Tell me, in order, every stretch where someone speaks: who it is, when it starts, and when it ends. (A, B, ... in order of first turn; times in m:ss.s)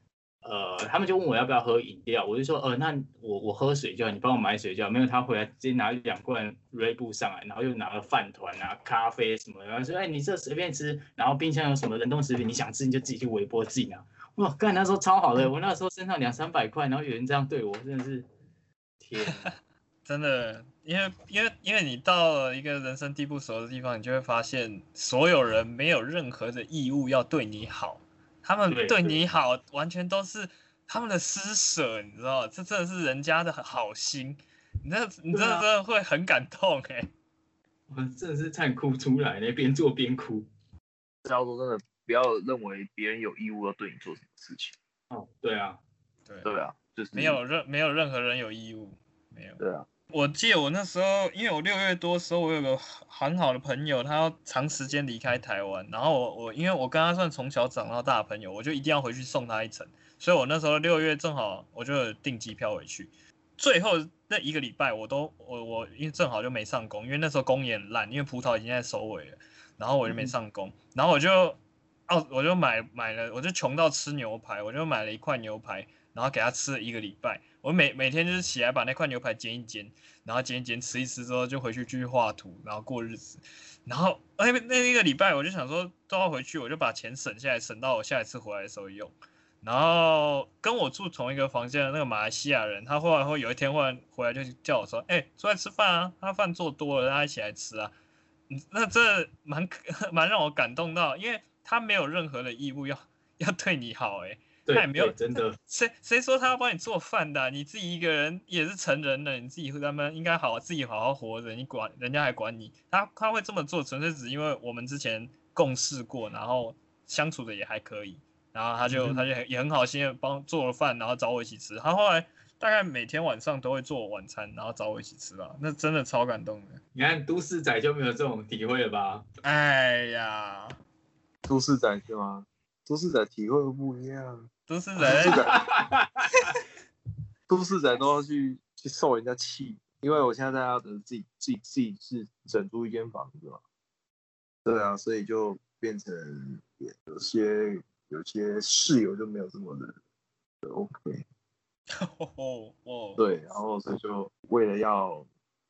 0:00.4-0:18.3 A
0:19.0-0:19.5 A
0:19.2-0:19.5 B
0:20.1-0:37.1 B
0:28.7-0:29.2 A
0:35.3-0:35.6 A
0:37.9-0:40.5 A
0:41.2-0:44.8 C
0:45.1-0:45.8 A
0:46.3-0:46.5 B
0:46.4-0:47.4 C
0:47.1-1:37.9 B
0:49.6-0:49.9 C
1:10.1-1:10.3 C
1:38.5-2:06.8 B
1:44.7-1:45.6 A
1:58.9-1:59.3 A
2:07.0-2:09.3 A
2:09.4-2:10.8 B
2:11.4-2:14.5 C
2:14.7-2:15.5 B
2:15.0-2:15.6 C
2:15.2-2:16.3 A
2:17.5-2:23.6 C
2:24.6-2:30.0 C
2:30.6-2:31.2 C
2:32.0-2:33.2 B
2:33.2-2:35.3 C